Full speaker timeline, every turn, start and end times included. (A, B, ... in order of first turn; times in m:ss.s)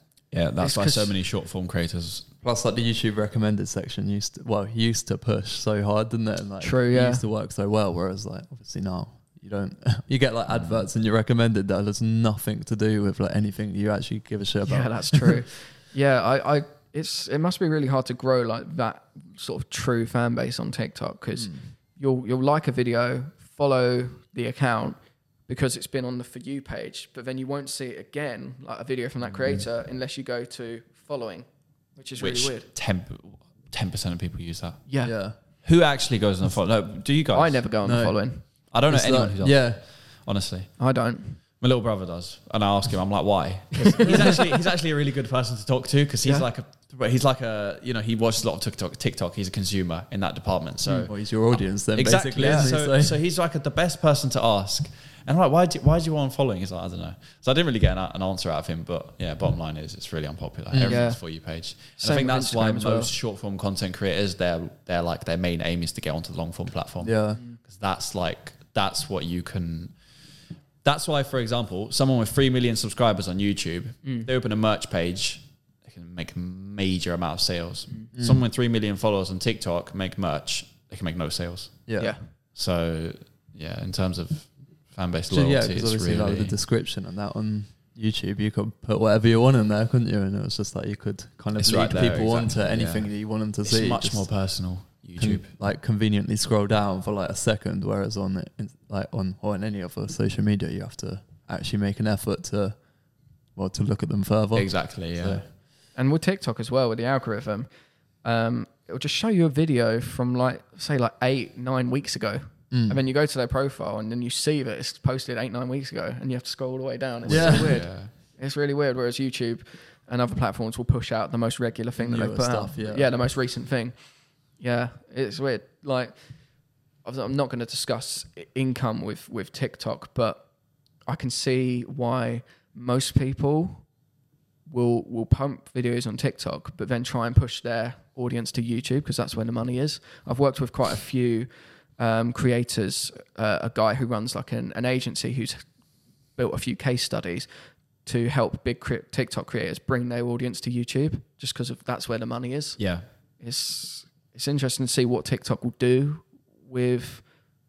0:00.3-0:02.3 A
0:00.6-0:01.1 B
0:02.4-0:15.4 C
0:06.6-0:07.2 B
0:10.5-0:10.8 A
0:14.6-0:25.0 B
0:25.5-0:31.4 B
0:32.0-0:32.6 B
0:32.2-0:34.8 A
0:34.9-0:35.1 B
0:35.0-0:35.4 C
0:35.6-0:37.6 A
0:37.3-0:38.4 B
0:37.8-0:38.1 C
0:38.7-0:40.7 A
0:38.9-0:39.8 C
0:40.8-0:41.4 B
0:41.6-1:09.9 A
0:43.8-0:44.4 B
0:51.1-0:53.2 C
0:52.4-0:52.7 B
1:00.7-1:01.0 C
1:00.8-1:01.2 B
1:01.8-1:03.1 B
1:07.0-1:07.4 C
1:10.8-1:21.8 A
1:18.1-1:18.4 C
1:21.9-1:22.1 C
1:22.5-1:26.6 A
1:25.3-1:34.3 C
1:31.5-1:35.5 A
1:35.2-1:42.8 C
1:43.6-1:45.4 C
1:44.5-1:45.4 A
1:45.9-1:47.7 B
1:48.2-2:04.0 B
1:52.7-1:53.0 C
1:57.2-1:57.8 C
1:57.3-1:58.1 A
2:02.0-2:03.1 C
2:04.6-2:06.1 B
2:07.0-2:10.4 B
2:11.1-2:13.8 B
2:14.7-2:25.6 B
2:26.4-2:27.5 B
2:28.0-2:32.8 B
2:32.8-2:33.0 A
2:33.4-2:37.2 B